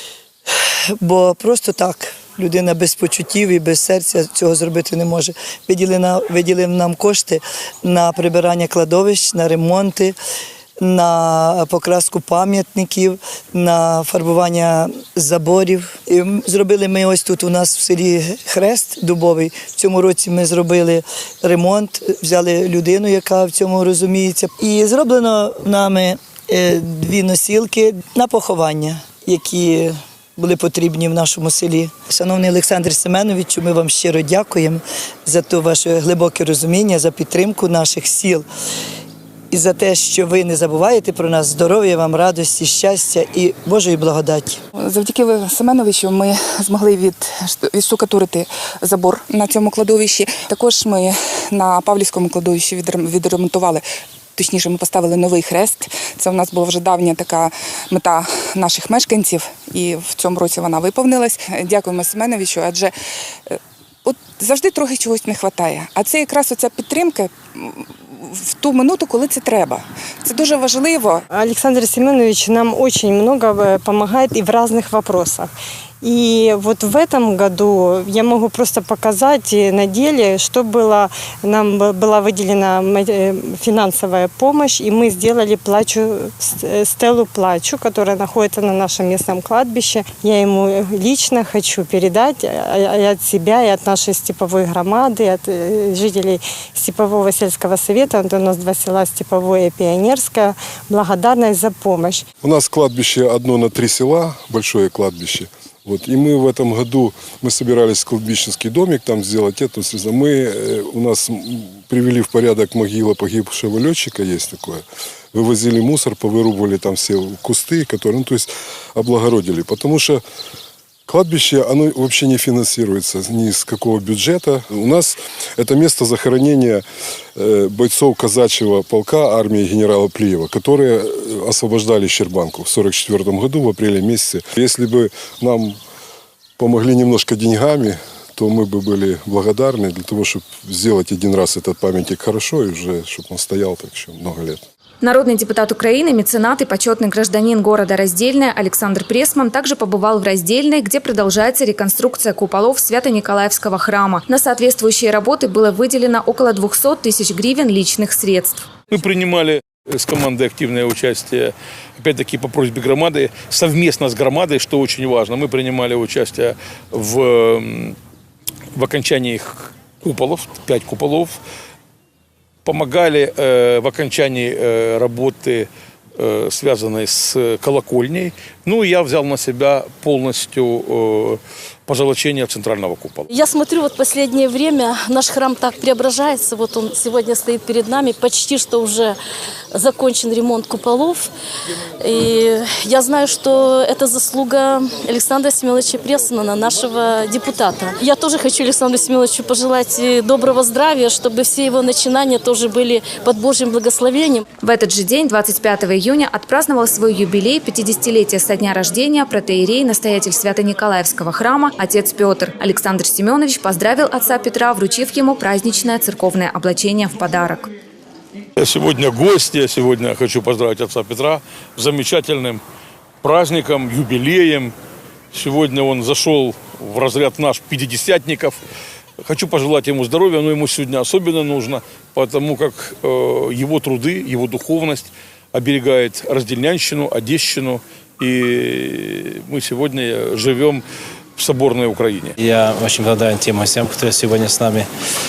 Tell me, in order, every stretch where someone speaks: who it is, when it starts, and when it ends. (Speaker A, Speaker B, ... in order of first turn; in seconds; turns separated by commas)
Speaker A: 1.0-10.2, Speaker A: 10.8-38.5, Speaker A: 39.5-44.6, Speaker B: 45.1-46.2, Speaker B: 47.7-48.4, Speaker B: 48.9-51.0, Speaker B: 51.7-53.8, Speaker B: 54.4-57.4, Speaker B: 57.9-62.9, Speaker B: 64.2-67.2, Speaker B: 68.6-71.1, Speaker C: 71.3-75.5, Speaker C: 76.0-102.2, Speaker D: 102.4-120.2, Speaker D: 121.1-126.8, Speaker D: 127.3-135.8, Speaker D: 136.6-144.6, Speaker E: 145.0-158.7, Speaker F: 158.9-167.9, Speaker F: 168.7-171.4, Speaker F: 172.6-183.3, Speaker G: 183.3-189.2, Speaker G: 189.7-191.3, Speaker G: 192.0-204.4, Speaker E: 204.6-217.7, Speaker F: 218.6-222.6, Speaker F: 223.2-224.7, Speaker F: 225.3-228.6, Speaker F: 229.2-240.8, Speaker F: 241.4-242.3, Speaker H: 242.4-244.9